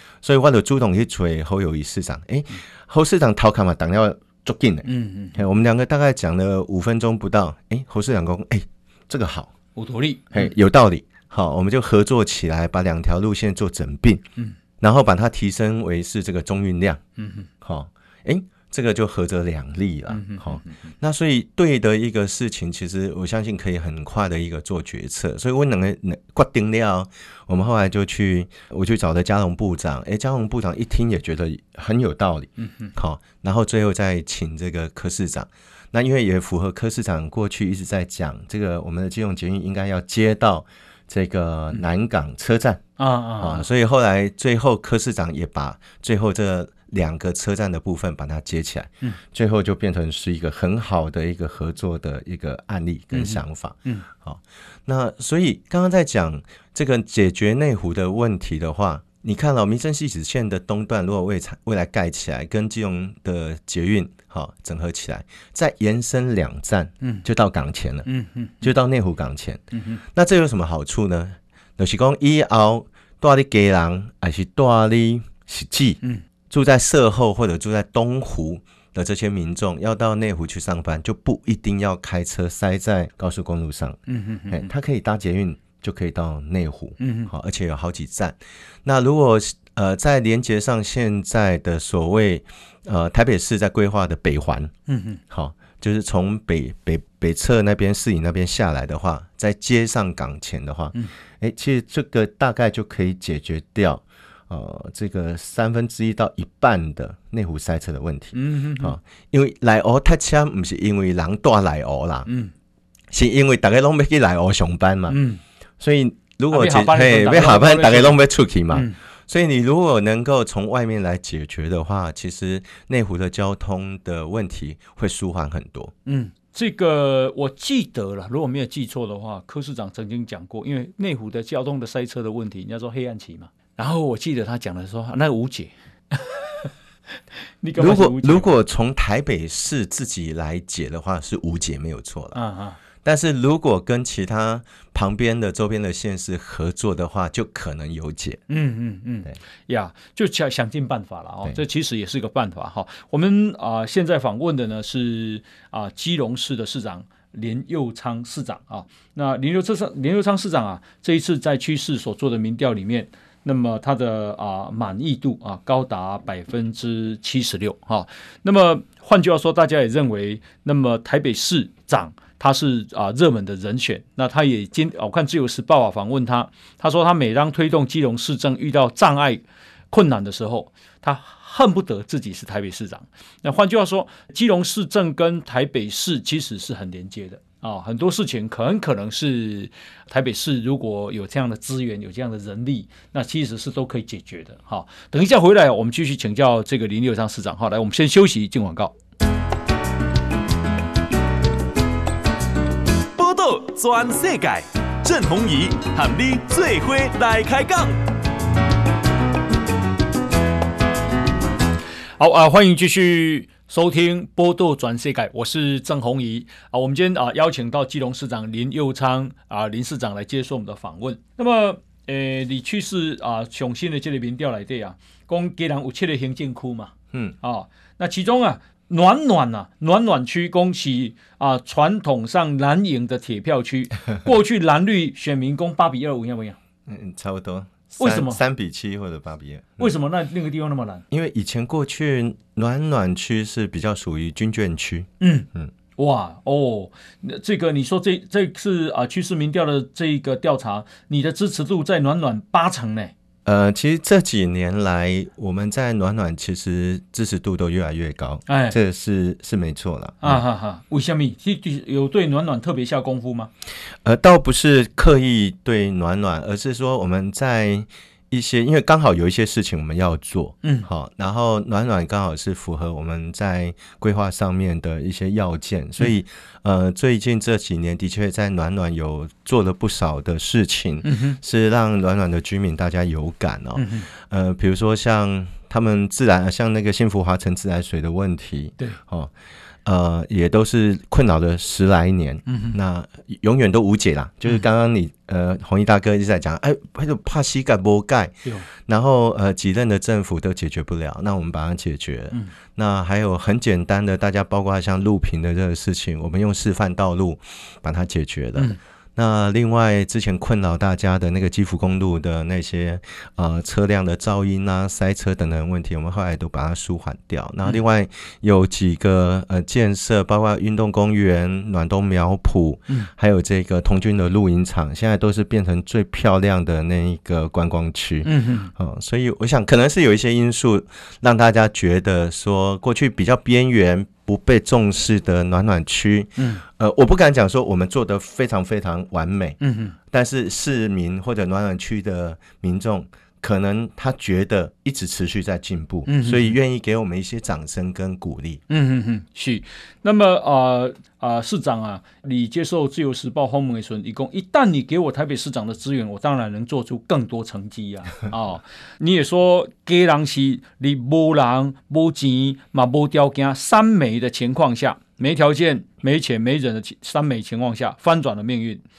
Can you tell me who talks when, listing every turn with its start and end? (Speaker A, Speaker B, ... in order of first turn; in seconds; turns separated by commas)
Speaker A: 0.2-9.5, Speaker B: 4.8-5.4, Speaker B: 9.8-10.5, Speaker A: 10.3-14.2, Speaker A: 14.8-17.0, Speaker B: 17.2-17.5, Speaker A: 17.6-42.8, Speaker B: 20.1-20.7, Speaker B: 32.6-32.9, Speaker B: 43.0-43.6, Speaker A: 43.4-68.1, Speaker B: 53.1-54.1, Speaker B: 68.0-68.6, Speaker A: 68.6-94.7, Speaker B: 69.7-70.0, Speaker B: 84.1-84.7, Speaker B: 87.0-87.3, Speaker B: 94.9-95.2, Speaker A: 95.3-112.3, Speaker B: 108.3-109.0, Speaker B: 112.3-112.5, Speaker A: 113.1-115.2, Speaker B: 115.1-115.4, Speaker A: 115.8-125.9, Speaker B: 116.5-119.0, Speaker B: 126.0-136.7, Speaker B: 137.6-138.5, Speaker A: 137.8-142.4, Speaker B: 142.3-142.8, Speaker A: 143.0-148.4, Speaker B: 148.5-198.9, Speaker C: 203.2-208.0, Speaker B: 212.2-236.6, Speaker A: 236.9-239.9, Speaker B: 238.0-238.4, Speaker B: 239.8-241.0, Speaker A: 241.1-245.7, Speaker B: 245.2-253.1, Speaker A: 253.4-260.4, Speaker B: 258.5-258.8, Speaker B: 260.2-263.5, Speaker A: 264.0-289.3, Speaker B: 270.6-270.9, Speaker B: 281.0-281.4, Speaker B: 283.8-284.1, Speaker A: 289.8-348.6, Speaker B: 292.5-292.8, Speaker B: 328.2-328.7, Speaker B: 336.4-336.6, Speaker B: 339.6-339.9, Speaker B: 346.1-346.5, Speaker B: 348.7-368.8